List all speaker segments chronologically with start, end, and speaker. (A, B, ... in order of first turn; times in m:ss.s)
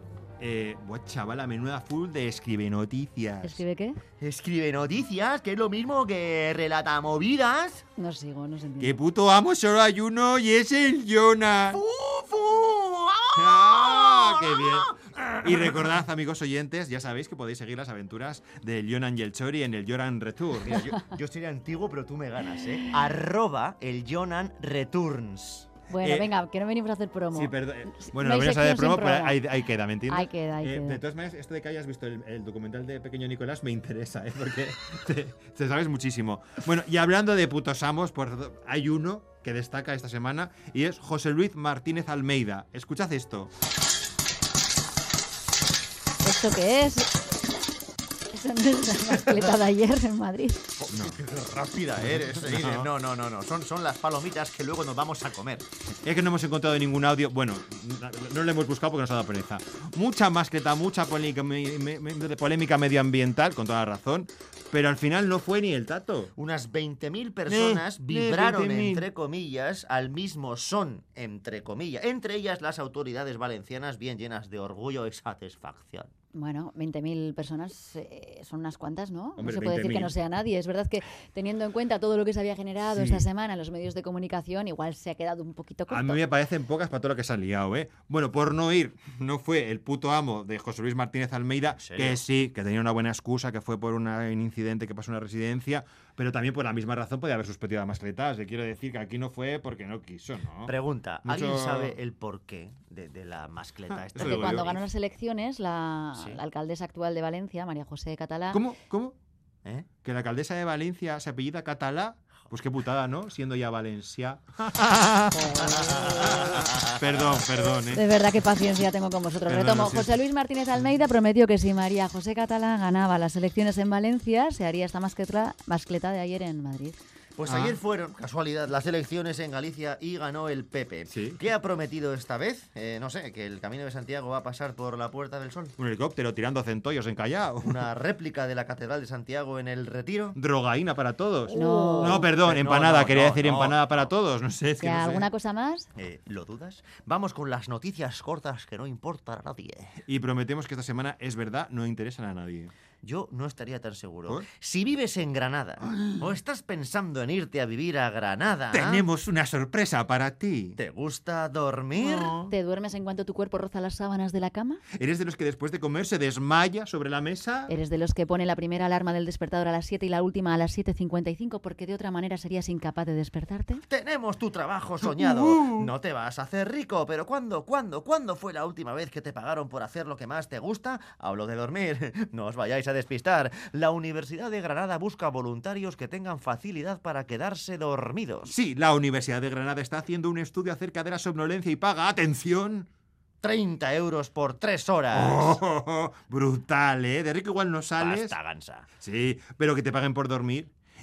0:00.4-0:03.6 A
0:03.4-0:04.0 B
0:04.2-0:07.8 C
0:08.0-0:09.0 B
0:08.8-0:11.8 A
0:11.7-0:15.8 C
0:13.3-0:20.9 A
0:20.6-0:25.7 C
0:25.9-0:29.4 B
0:26.0-0:26.3 A
0:27.3-0:43.5 A
0:30.1-0:31.0 B
0:46.2-0:47.1 B
0:48.3-0:50.6 B
0:50.8-0:55.7 C
0:50.9-0:51.2 A
0:52.0-0:52.9 A
0:56.0-1:06.3 A
1:06.4-1:16.1 C
1:07.5-1:09.1 A
1:16.3-1:26.2 B
1:19.4-1:20.2 A
1:22.9-1:23.3 A
1:25.9-1:42.0 A
1:31.8-1:32.2 C
1:40.7-1:44.8 C
1:44.1-1:44.8 A
1:44.2-1:48.6 B
1:48.5-1:49.2 A
1:50.0-1:58.1 A
1:55.3-1:56.6 B
1:55.8-1:57.4 C
1:57.9-2:07.0 B
1:59.5-2:00.2 A
2:07.4-2:15.8 C
2:07.5-2:07.8 A
2:11.1-2:11.4 A
2:15.8-2:17.9 A
2:17.6-2:20.4 C
2:20.4-2:25.3 A
2:21.5-2:22.3 B
2:21.6-2:24.1 C
2:24.8-2:25.9 B
2:26.0-2:30.0 C
2:30.1-2:32.7 A
2:33.0-2:39.0 C
2:35.8-2:36.3 A
2:38.7-2:40.8 A
2:40.8-2:42.4 C
2:42.0-2:42.5 A
2:42.2-2:44.8 B
2:44.9-2:47.7 A
2:47.7-2:53.8 B
2:53.9-3:08.6 C
2:55.0-2:55.9 A
3:08.5-3:12.9 A
3:13.4-3:15.6 C
3:15.1-3:18.4 A
3:18.0-3:18.9 C
3:19.0-3:20.7 A